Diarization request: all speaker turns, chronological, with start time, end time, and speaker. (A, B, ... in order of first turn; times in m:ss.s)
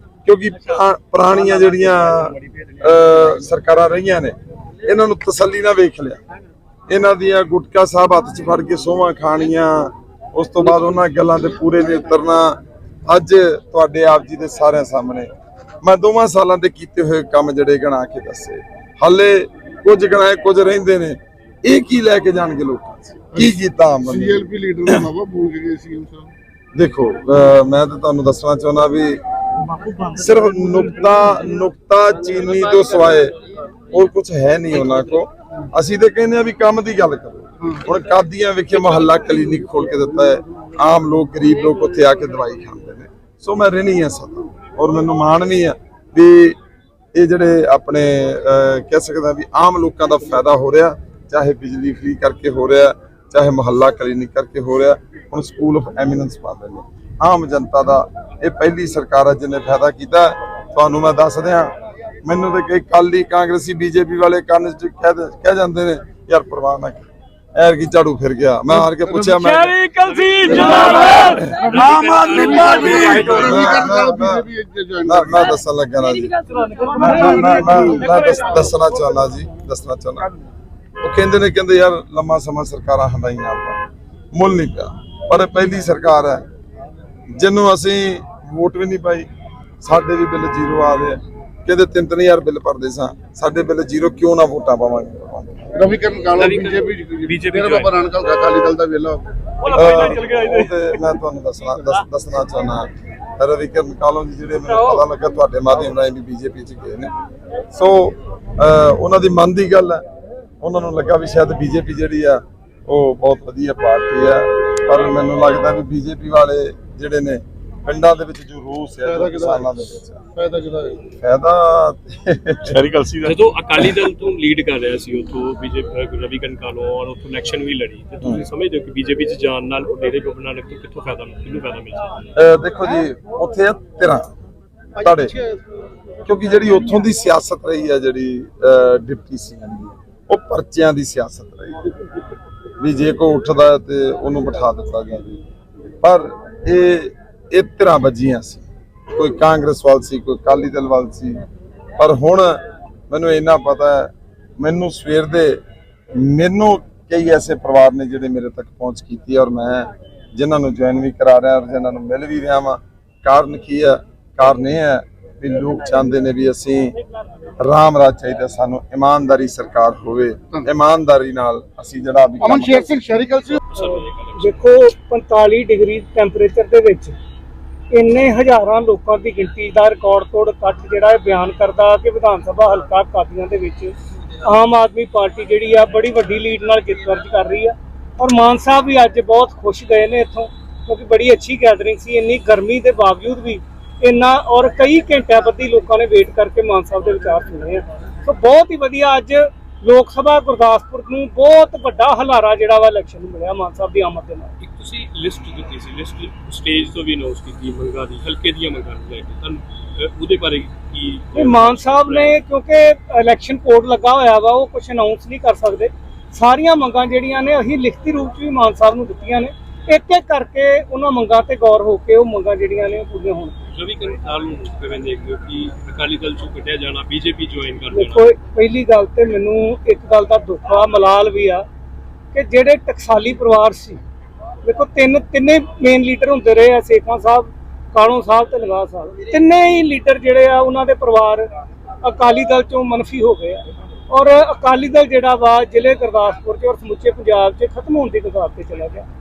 0:00.2-0:06.2 A
0:06.9-0:15.3 A
0:15.8-0:25.0 A
0:23.4-0:26.3 B
0:26.8-0:29.2 A
0:29.9-0:33.4 A
0:33.9-0:46.6 A
0:47.1-1:09.8 A
1:09.4-1:13.5 C
1:10.0-1:13.8 D
1:10.5-1:11.7 A
1:11.6-1:15.5 B
1:13.3-1:14.5 A
1:15.0-1:20.3 A
1:17.8-1:18.1 B
1:21.0-1:23.8 A
1:24.3-1:26.4 A
1:27.3-1:29.3 A
1:29.8-1:35.9 A
1:35.7-1:39.3 B
1:36.3-1:38.0 D
1:39.6-1:40.7 D
1:39.7-1:47.1 A
1:47.7-1:50.0 A
1:50.6-2:00.2 A
1:59.1-1:59.7 B
2:00.3-2:01.1 B
2:01.1-2:02.8 A
2:02.7-2:03.4 C
2:03.2-2:12.3 D
2:12.4-2:14.3 A
2:15.0-2:15.5 A
2:16.2-2:22.0 A
2:22.8-2:25.4 A
2:26.0-2:31.5 A
2:32.0-2:35.6 A
2:36.1-2:47.0 A
2:47.6-2:52.9 A
2:52.4-2:53.6 B
2:53.5-2:54.9 D
2:53.8-2:57.2 E
2:57.9-3:24.5 E
3:24.6-3:32.4 D
3:31.4-3:43.6 E
3:43.7-3:48.3 D
3:47.9-3:51.7 E
3:52.3-3:54.0 E
3:54.6-4:01.5 E
4:02.0-4:09.1 E